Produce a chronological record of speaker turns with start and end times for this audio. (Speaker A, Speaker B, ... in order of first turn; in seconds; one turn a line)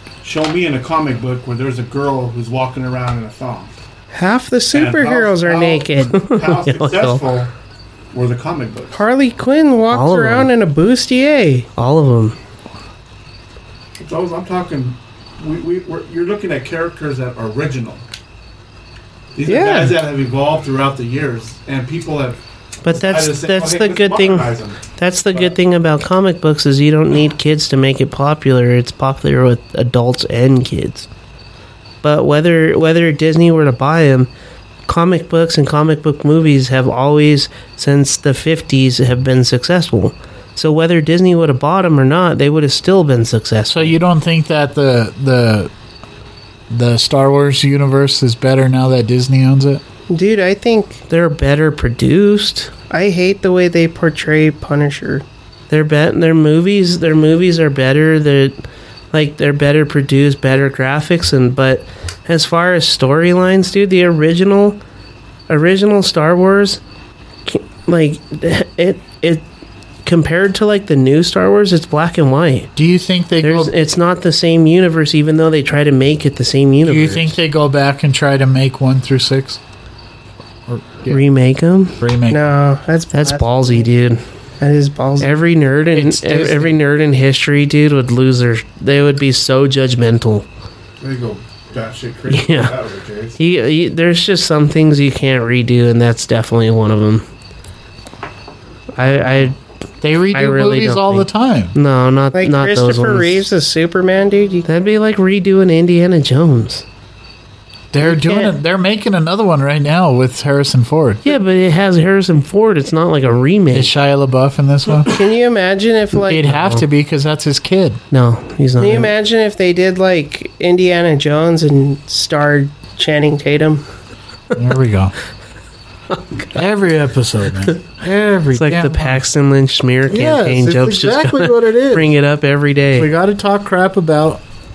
Speaker A: 0.2-3.7
Speaker B: 4.1-6.2
Speaker A: 4.7-7.5
Speaker C: 6.1-7.2
Speaker A: 8.1-9.0
Speaker B: 8.9-11.7
Speaker C: 9.9-10.5
Speaker C: 11.8-12.4
Speaker A: 14.0-18.0
Speaker A: 19.4-24.8
Speaker B: 19.5-20.0
Speaker C: 22.8-31.1
Speaker C: 32.0-34.3
Speaker C: 34.9-43.9
Speaker D: 43.7-45.7
Speaker D: 46.7-49.8
Speaker B: 50.1-51.0
Speaker C: 51.1-52.7
Speaker B: 52.9-55.2
Speaker C: 55.7-58.6
Speaker C: 59.1-64.8
Speaker C: 65.5-66.8
Speaker C: 67.5-69.5
Speaker C: 70.0-72.7
Speaker D: 72.8-73.7
Speaker C: 73.4-77.4
Speaker D: 76.8-79.6
Speaker D: 80.7-81.2
Speaker C: 81.1-82.0
Speaker D: 82.0-82.4
Speaker B: 82.3-83.9
Speaker C: 83.1-84.2
Speaker B: 84.6-85.4
Speaker C: 85.2-90.5
Speaker D: 85.9-86.7
Speaker A: 91.0-93.4
Speaker C: 92.3-92.7
Speaker C: 93.4-97.2
Speaker C: 99.0-99.6
Speaker D: 100.0-101.8
Speaker C: 100.3-103.5
Speaker B: 102.3-104.7
Speaker C: 104.7-106.8
Speaker D: 107.9-111.3
Speaker B: 108.0-108.5
Speaker C: 111.2-113.9
Speaker D: 113.7-115.1
Speaker B: 115.0-116.8
Speaker D: 116.2-118.0
Speaker C: 118.1-119.1
Speaker B: 118.8-123.8
Speaker D: 124.5-125.1
Speaker D: 126.5-129.2
Speaker C: 128.5-133.1
Speaker D: 130.1-132.1
Speaker D: 133.0-134.4